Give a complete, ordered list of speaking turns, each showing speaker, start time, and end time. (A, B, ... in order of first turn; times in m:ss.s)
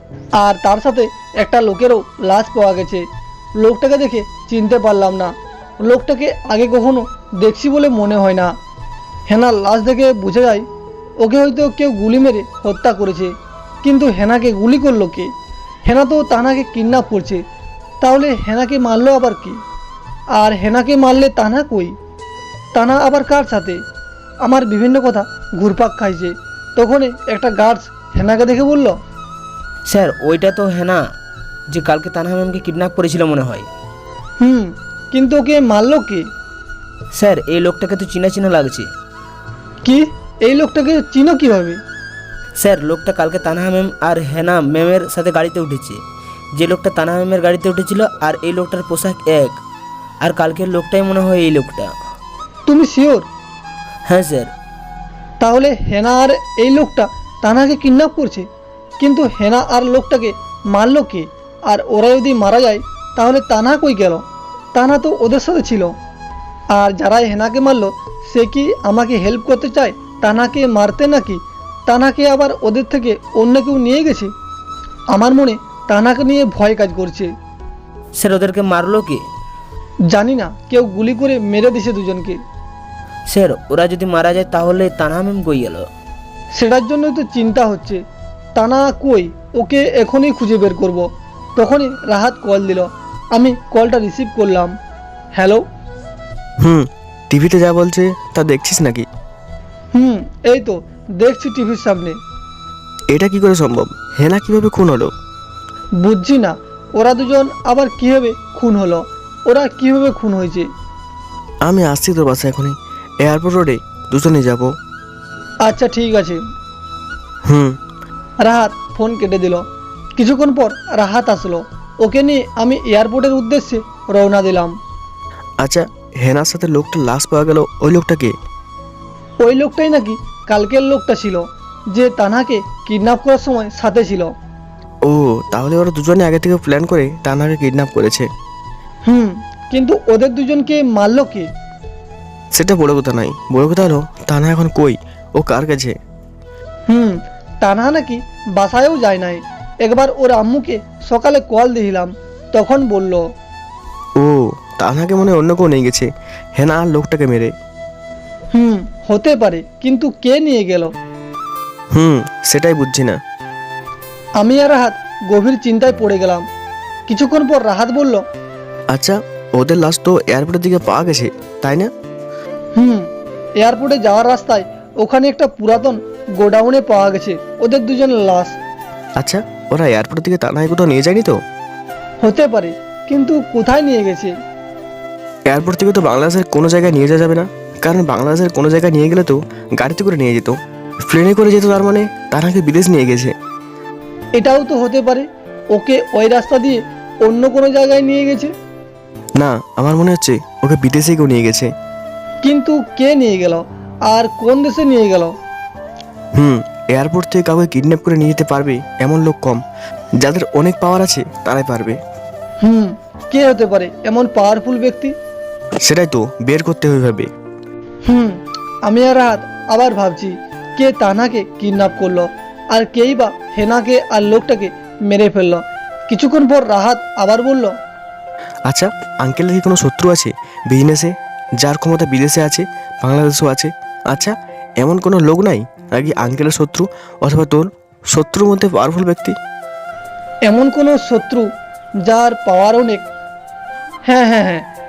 0:00.4-0:03.0 A
0:03.6-0:08.5 A
0:09.3-0:10.6 A
0:11.2-0:15.3 A
0:15.8-0:17.4 A
0:18.0-0:19.6 A
0:20.4-0:21.9 A
0:22.7-0:23.8 A
0:24.4-0:29.0 A
0:29.8-0:31.0 B
0:31.7-0:33.7 B
0:34.4-0:36.2 A
0:37.1-0:38.9 B
0:39.8-0:41.8 A
0:42.6-0:46.0 B
0:46.5-0:49.6 B
0:50.2-0:51.9 B
0:52.7-0:53.2 A
0:54.0-0:54.5 B
0:55.4-0:58.4 A
0:59.0-1:05.9 A
1:06.7-1:14.3 A
1:15.1-1:17.3 A
1:18.2-1:19.2 B
1:20.1-1:22.4 A
1:23.3-1:25.9 B
1:26.5-1:28.0 A
1:28.5-1:34.7 A
1:35.4-1:35.6 A
1:36.6-1:39.0 C
1:39.9-1:42.1 A
1:43.1-1:45.1 C
1:46.0-1:50.7 A
1:51.6-1:54.7 C
1:55.6-1:56.4 A
1:57.4-1:57.8 C
1:58.4-1:59.6 A
2:00.2-2:04.7 A
2:05.6-2:08.3 C
2:09.4-2:14.3 A
2:15.0-2:18.3 C
2:19.1-2:21.5 A
2:22.5-2:25.9 C
2:26.9-2:33.2 A
2:34.2-2:37.5 C
2:38.5-2:40.9 A
2:41.9-2:43.2 C
2:44.4-2:46.4 A
2:47.1-2:48.2 A
2:48.9-2:51.9 C
2:52.8-2:53.0 A
2:53.6-2:58.6 A
2:59.2-3:01.4 C
3:02.2-3:04.3 A
3:05.5-3:10.6 C
3:11.1-3:13.3 C
3:14.4-3:18.5 A
3:19.4-3:21.7 C
3:22.4-3:25.3 A
3:26.3-3:29.6 C
3:30.2-3:32.0 C
3:32.6-3:35.1 A
3:35.8-3:37.3 C
3:38.1-3:38.3 A
3:38.8-3:47.7 A
3:48.7-3:59.3 C
4:00.4-4:01.5 A
4:02.0-4:03.0 A
4:04.1-4:04.6 A